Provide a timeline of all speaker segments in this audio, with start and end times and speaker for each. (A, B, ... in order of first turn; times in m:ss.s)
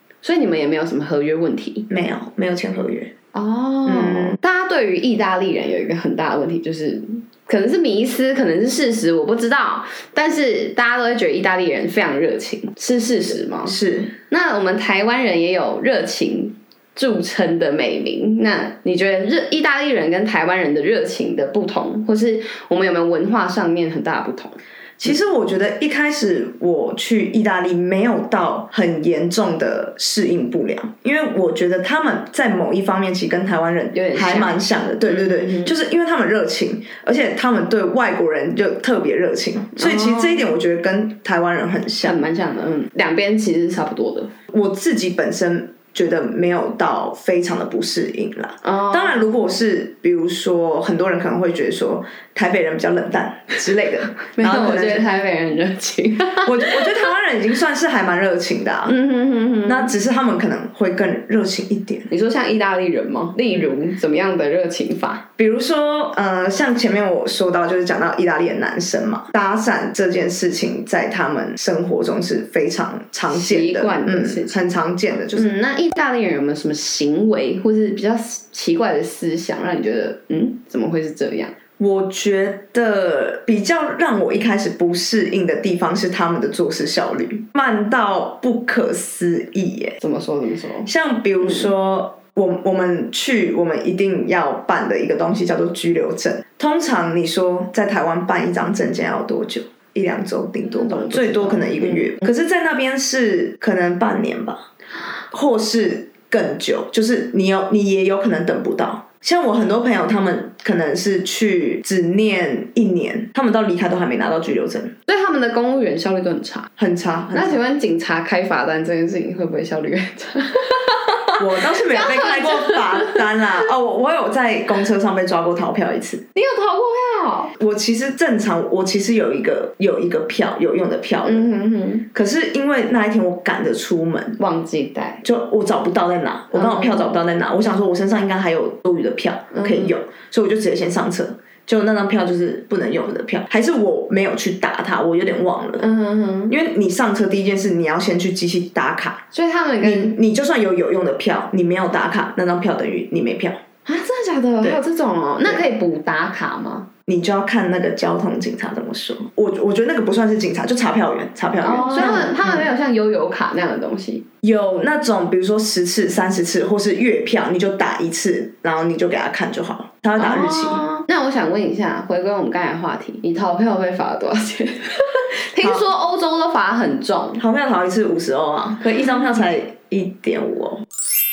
0:00.2-0:01.9 A
0:01.9-0:03.1 B
0:03.3-0:13.8 A
0:03.8-0:04.4 B
0:13.6-0:14.1 B
0:14.3-0:24.6 A
0:25.0-0:42.2 B
0:33.9-0:35.7 A
0:39.8-0:40.5 A
0:42.0-0:44.3 A
0:44.5-0:55.1 B
0:48.6-0:49.2 A
0:54.3-0:56.9 A
0:56.4-0:59.0 B
0:58.9-0:59.9 A
0:59.6-1:02.1 B
1:02.1-1:05.2 A
1:05.4-1:15.5 B
1:13.3-1:14.6 A
1:15.3-1:21.5 A
1:21.8-1:30.0 B
1:30.0-1:30.9 A
1:30.8-1:44.6 B
1:40.7-1:42.2 A
1:45.3-1:54.9 B
1:55.1-1:56.7 A
1:56.8-1:57.6 B
1:57.3-2:03.2 A
2:01.4-2:06.2 B
2:06.3-2:07.5 A
2:07.6-2:11.5 B
2:11.2-2:12.0 A
2:12.1-2:14.4 B
2:14.4-2:15.2 A
2:15.2-2:25.8 B
2:16.5-2:17.0 A
2:19.5-2:19.9 A
2:25.8-2:26.6 A
2:26.5-2:29.2 B
2:29.3-2:30.2 A
2:29.8-2:33.6 B
2:33.8-2:36.9 A
2:37.1-2:42.7 B
2:41.6-2:44.2 A
2:44.4-2:50.8 B
2:50.2-2:57.4 A
2:57.4-3:00.8 B